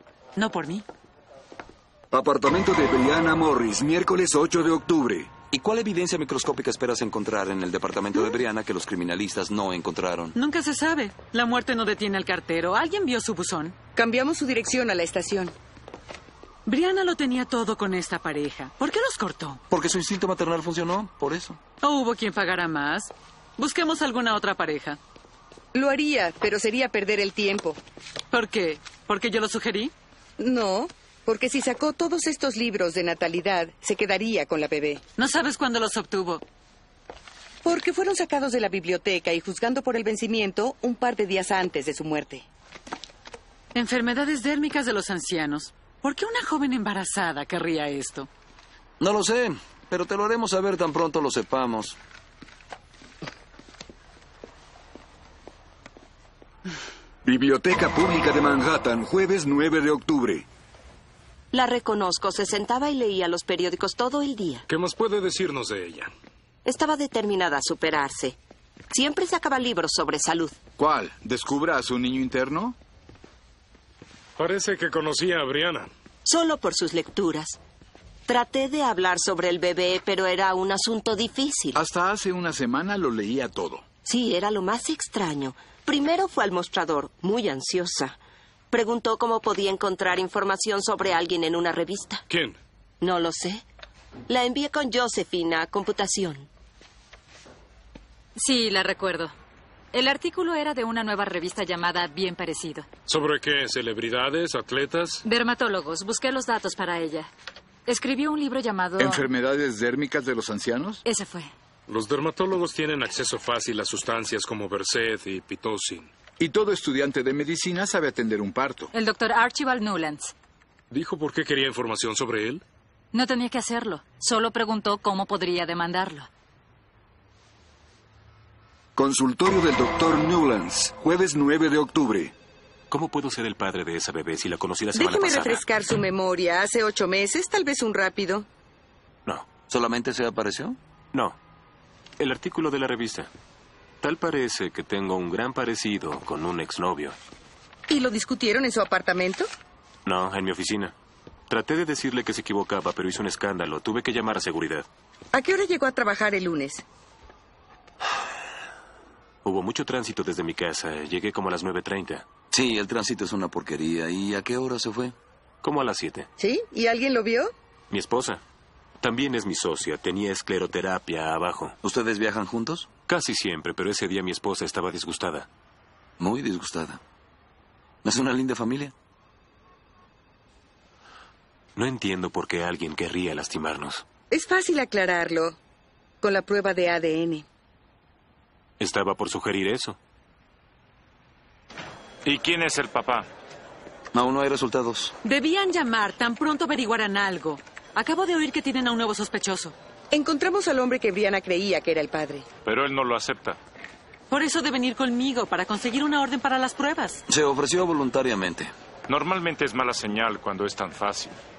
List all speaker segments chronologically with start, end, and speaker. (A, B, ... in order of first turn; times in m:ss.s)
0:00.4-0:00.8 A
0:02.1-0:05.3 B
0:05.5-0:10.4 C
0:10.4-0:13.8 A
0:14.0-0:15.5 D
0:16.7-0:19.6 A
0:19.7-0:21.6 C
0:21.8-0:25.0 A
0:25.7-0:27.8 D
0:28.3-0:29.9 A
0:30.4-0:35.0 D
0:35.2-0:36.4 A
0:37.6-0:42.5 D
0:43.7-0:48.3 A
0:49.0-0:52.0 C
0:57.2-1:00.5 B
1:01.5-1:04.6 E
1:04.7-1:06.1 F
1:06.6-1:08.4 E
1:08.9-1:10.6 E
1:10.8-1:12.8 G
1:14.4-1:15.9 F
1:16.2-1:17.6 E
1:18.3-1:21.8 E
1:21.7-1:23.9 G
1:24.0-1:28.2 E
1:28.7-1:32.2 E
1:32.3-1:32.6 F
1:33.0-1:33.6 E
1:34.3-1:36.5 E
1:38.4-1:39.3 H
1:39.9-1:42.9 H
1:43.1-1:45.2 F
1:45.2-1:47.3 H
1:47.9-1:49.2 H
1:49.0-1:51.0 G
1:51.0-1:51.5 H
1:51.9-1:56.1 F
1:56.4-1:58.9 G
1:58.9-2:00.3 H
2:00.9-2:02.6 F
2:03.1-2:06.3 H
2:09.0-2:12.3 B
2:12.9-2:15.6 I
2:14.9-2:18.5 D
2:19.7-2:20.8 C
2:22.2-2:23.3 I
2:24.0-2:27.2 I
2:27.9-2:29.5 D
2:30.0-2:30.9 I
2:31.5-2:34.9 I
2:35.3-2:36.8 D
2:39.4-2:42.3 I
2:42.5-2:45.2 C
2:45.6-2:46.3 I
2:46.4-2:47.5 D
2:47.9-2:48.4 I
2:49.0-2:51.8 I
2:51.8-2:52.9 C
2:53.1-2:55.5 I
2:56.2-2:57.0 C
2:58.0-2:58.9 C
3:01.8-3:04.0 I
3:04.3-3:05.6 D
3:06.2-3:07.4 D
3:08.8-3:10.0 I
3:12.2-3:13.3 J
3:14.1-3:15.2 C
3:15.2-3:19.8 A
3:20.1-3:22.5 D
3:22.6-3:23.6 J
3:24.3-3:27.2 A
3:27.3-3:28.7 C
3:29.1-3:31.4 J